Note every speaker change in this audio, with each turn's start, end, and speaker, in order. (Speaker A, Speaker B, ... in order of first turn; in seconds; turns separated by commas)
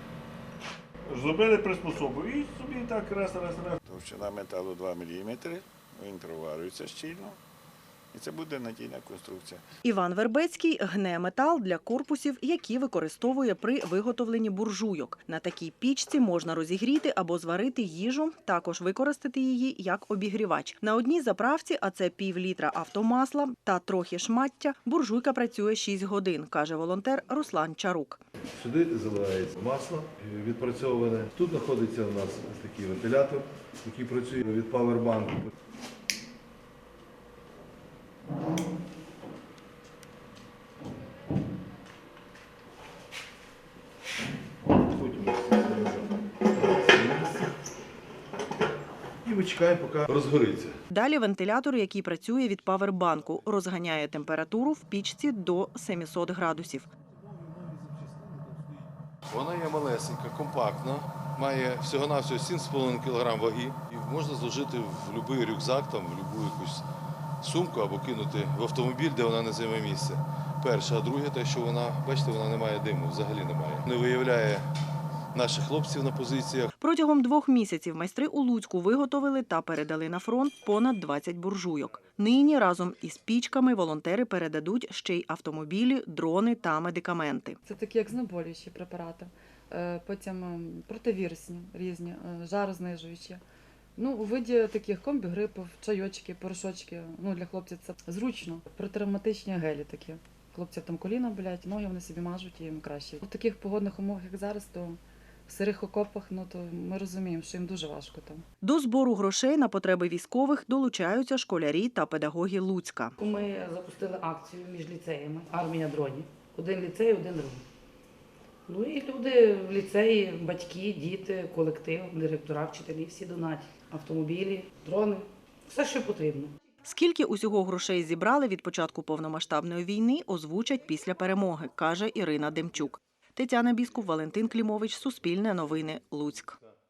Speaker A: 1.1-3.8, Speaker B: 3.9-7.4, Speaker B: 8.1-9.6, Speaker C: 9.8-28.2, Speaker D: 28.6-35.5, Speaker D: 44.8-47.4, Speaker D: 49.2-50.8, Speaker C: 50.9-56.9, Speaker D: 57.3-58.5, Speaker D: 59.3-66.8, Speaker D: 67.4-74.7, Speaker D: 75.3-76.7, Speaker C: 76.8-87.6, Speaker E: 87.6-93.4, Speaker E: 94.0-108.4, Speaker C: 108.6-113.2, Speaker F: 113.2-117.7, Speaker F: 118.7-126.5, Speaker C: 126.8-136.6